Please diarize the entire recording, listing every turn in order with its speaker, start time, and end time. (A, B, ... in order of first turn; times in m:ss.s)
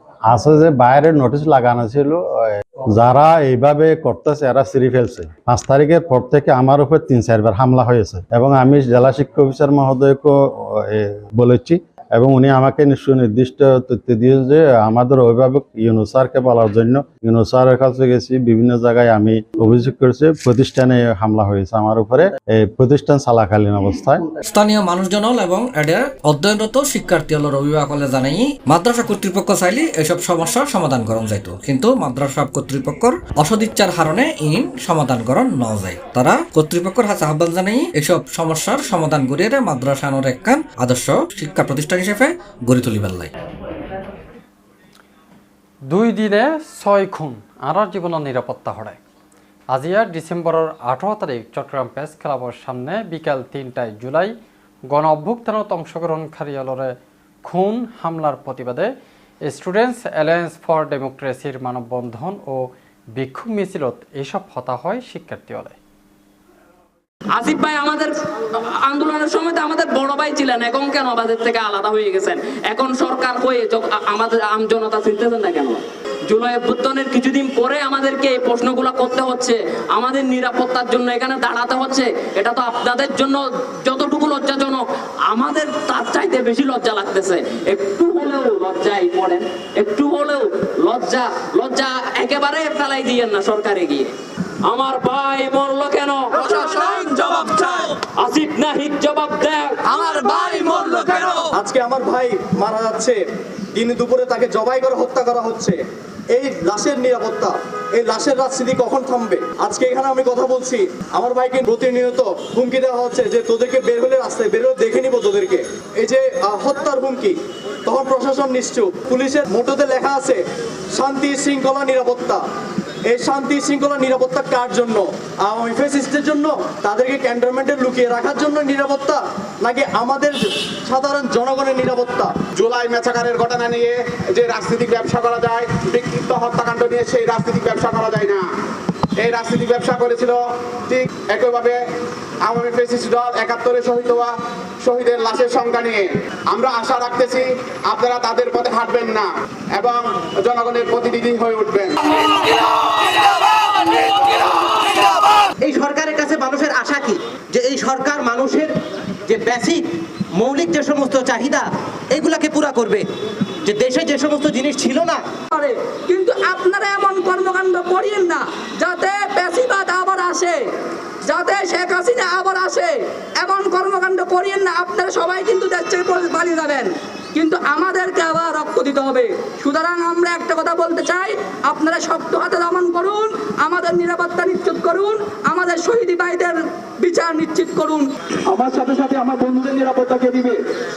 0:00.3-0:24.2 A
0:24.4-0:43.3 B
0:45.9-0:49.0 C
0:49.7-0:54.3 C
0:54.9-0:56.9 C
0:57.4-0:58.9 C
0:59.4-1:05.8 C
1:07.3-1:34.1 D
1:34.6-1:37.5 D
1:38.2-1:40.4 D
1:41.5-1:43.2 E
1:43.7-1:45.8 E
1:46.3-2:00.4 E
2:01.0-2:02.4 E
2:03.1-2:12.4 E
2:12.6-2:18.4 F
2:19.2-2:21.8 F
2:22.4-2:24.3 F
2:24.8-2:32.0 F
2:35.6-2:38.7 G
2:39.3-2:39.8 G
2:40.4-2:41.6 G
2:42.1-2:43.0 G
2:43.7-2:45.2 G
2:45.5-2:50.6 H
2:51.3-3:08.1 H
3:08.5-3:10.6 I